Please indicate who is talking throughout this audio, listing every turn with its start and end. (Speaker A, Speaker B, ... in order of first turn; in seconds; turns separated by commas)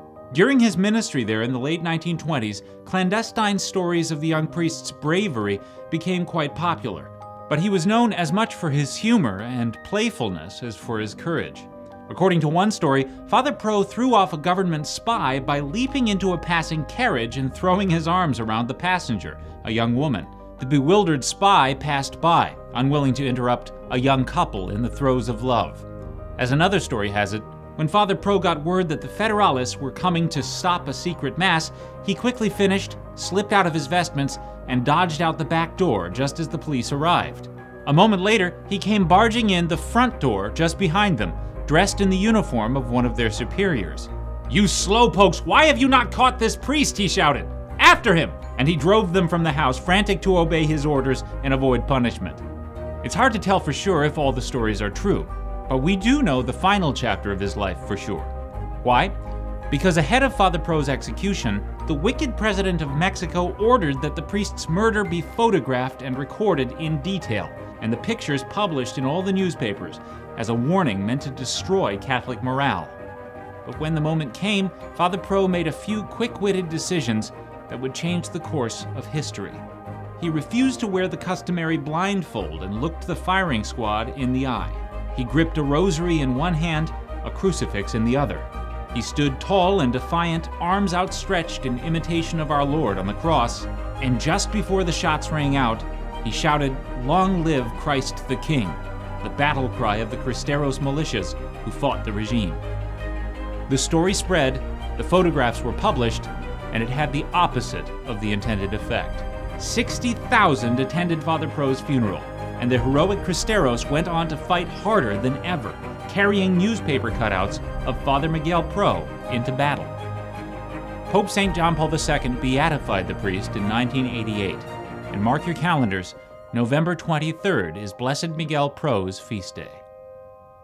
Speaker A: 0.3-25.9, Speaker A: 26.4-52.4, Speaker A: 53.0-59.2, Speaker A: 59.7-73.0, Speaker A: 73.7-79.6, Speaker A: 80.2-102.6, Speaker A: 103.7-119.9, Speaker A: 121.1-129.8